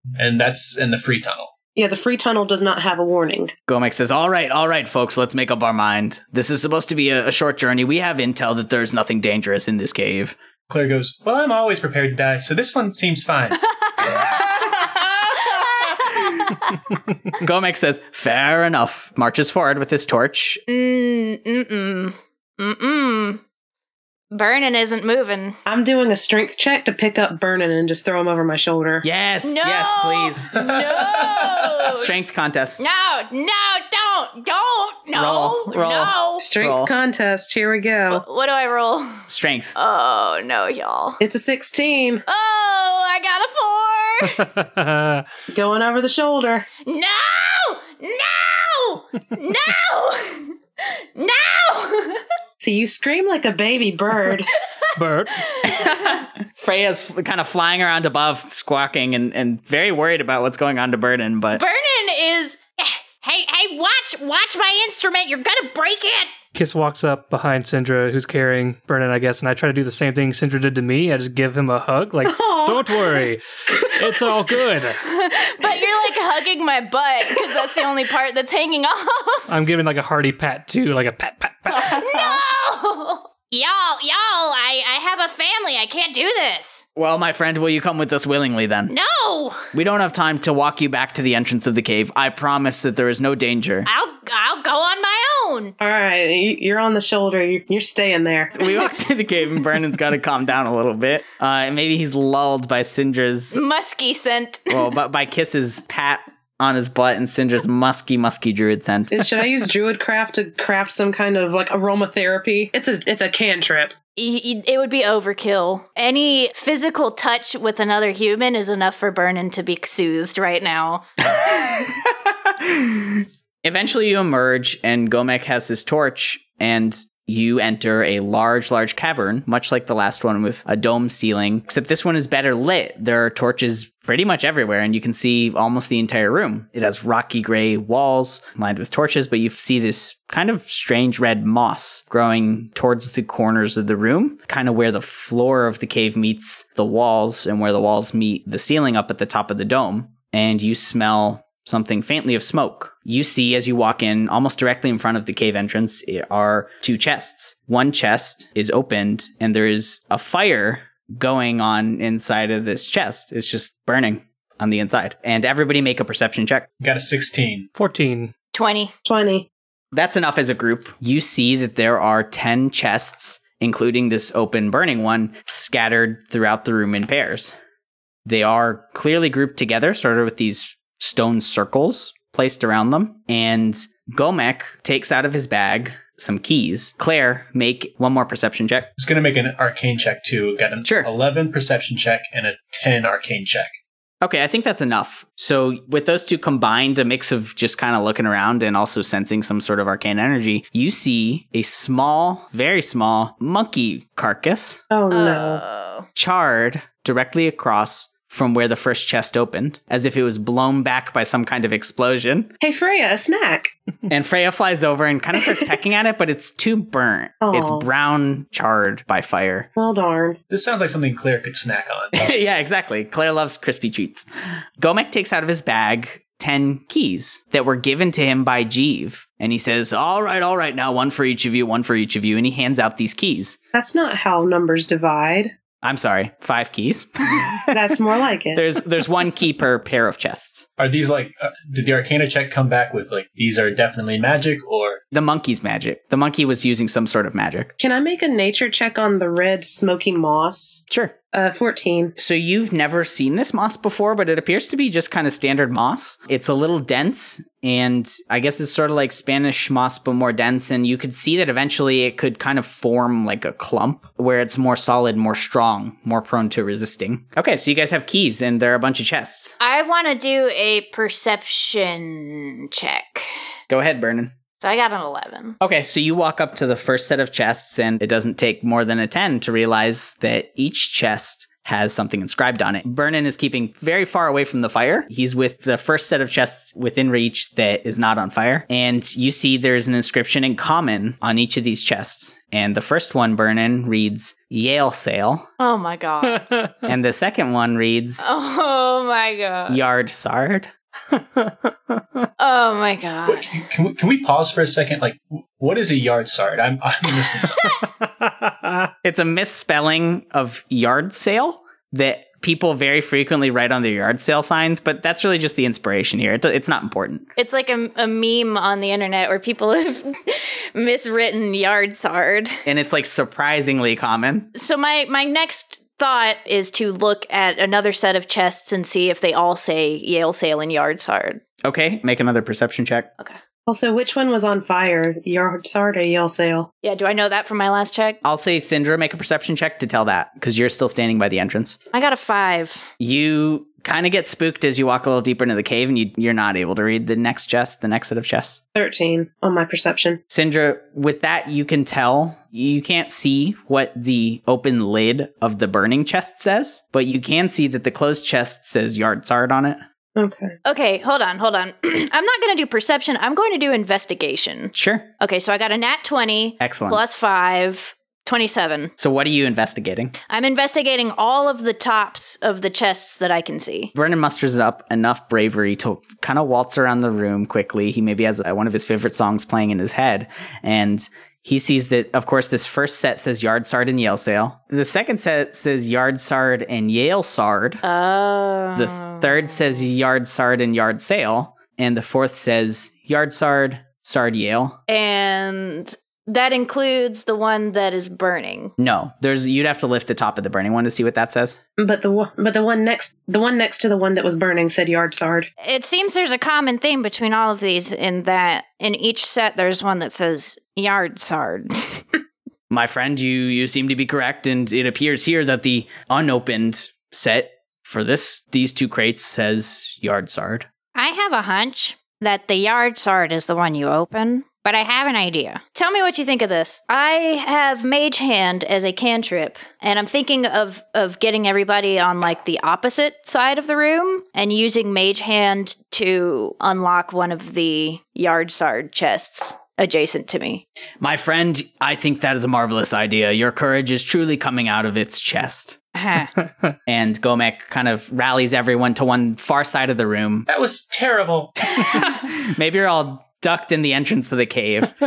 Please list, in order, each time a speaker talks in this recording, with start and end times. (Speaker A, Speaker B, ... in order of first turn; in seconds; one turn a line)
Speaker A: 0.2-1.5
Speaker B: 1.8-3.5
Speaker C: 3.7-10.3
Speaker A: 10.7-13.6
Speaker D: 14.0-14.3
Speaker C: 14.3-16.3
Speaker C: 17.4-20.6
Speaker D: 20.7-23.4
Speaker D: 24.3-25.6
Speaker B: 25.7-29.0
Speaker C: 29.0-30.7
Speaker D: 29.4-32.1
Speaker A: 30.6-31.9
Speaker C: 31.9-32.8
Speaker D: 32.8-36.5
Speaker C: 35.1-36.9
Speaker B: 36.4-38.2
Speaker D: 38.1-41.2
Speaker C: 39.3-39.8
Speaker B: 41.2-42.2
Speaker D: 42.3-44.4
Speaker E: 44.2-45.3
Speaker B: 45.5-46.7
Speaker D: 46.9-52.2
Speaker B: 52.6-54.5
Speaker E: 55.0-55.5
Speaker D: 55.4-55.9
Speaker C: 55.6-61.6
Speaker D: 61.6-66.3
Speaker E: 66.5-75.0
Speaker B: 72.2-73.3
Speaker D: 75.0-79.5
Speaker E: 79.5-81.9
Speaker C: 81.7-82.4
Speaker D: 81.8-86.8
Speaker C: 87.0-88.9
Speaker D: 88.9-89.7
Speaker C: 89.7-93.9
Speaker D: 93.9-95.8
Speaker B: 95.8-98.5
Speaker C: 98.5-103.6
Speaker D: 103.5-104.9
Speaker C: 104.7-109.3
Speaker B: 109.1-114.0
Speaker D: 114.2-121.1
Speaker C: 121.3-166.7
Speaker A: 166.8-167.7
Speaker E: 167.8-168.3
Speaker D: 168.5-168.9
Speaker B: 169.1-169.5
Speaker C: 169.9-177.6
Speaker C: 178.2-188.9
Speaker A: 189.0-193.7
Speaker C: 190.8-191.1
Speaker C: 194.2-204.8
Speaker B: 204.9-205.6
Speaker D: 205.1-206.1
Speaker C: 206.2-212.5
Speaker B: 212.6-213.7
Speaker C: 214.1-219.7
Speaker B: 217.4-217.9
Speaker B: 219.8-220.4
Speaker A: 220.5-222.4
Speaker C: 222.2-224.3
Speaker C: 224.8-233.6
Speaker B: 233.7-235.5
Speaker C: 235.8-237.8
Speaker B: 237.7-238.7
Speaker C: 238.5-240.7
Speaker A: 240.8-245.0
Speaker C: 245.1-247.7
Speaker B: 247.8-252.2
Speaker C: 250.9-251.1
Speaker C: 252.2-269.6
Speaker D: 269.6-273.3
Speaker C: 273.7-274.3
Speaker D: 274.6-275.6
Speaker C: 275.6-295.5
Speaker D: 295.6-296.5
Speaker E: 296.2-296.8
Speaker C: 296.9-298.2
Speaker D: 298.2-299.8
Speaker C: 299.7-300.7
Speaker E: 301.1-302.3
Speaker D: 302.4-303.5
Speaker A: 303.3-307.7
Speaker D: 307.6-307.8
Speaker E: 308.2-308.9
Speaker C: 309.0-317.3
Speaker D: 317.4-322.6
Speaker C: 322.6-324.5
Speaker D: 324.6-331.4
Speaker C: 331.6-333.1
Speaker B: 333.7-336.7
Speaker D: 336.8-338.2
Speaker C: 338.2-341.8
Speaker D: 341.9-342.9
Speaker C: 343.0-348.6
Speaker B: 348.8-350.2
Speaker C: 350.3-359.8
Speaker B: 360.2-360.6
Speaker D: 360.6-368.9
Speaker C: 364.7-365.1
Speaker C: 366.6-367.0
Speaker C: 369.0-370.1
Speaker D: 370.3-373.9
Speaker C: 373.9-387.8
Speaker D: 387.8-389.5
Speaker C: 388.8-394.8
Speaker D: 394.9-398.7
Speaker C: 398.8-401.6
Speaker B: 401.8-405.5
Speaker D: 405.6-412.1
Speaker C: 412.7-420.7
Speaker D: 420.9-440.6
Speaker C: 441.0-445.8
Speaker D: 445.9-446.3
Speaker C: 446.9-450.5
Speaker A: 450.5-451.6
Speaker C: 451.7-455.0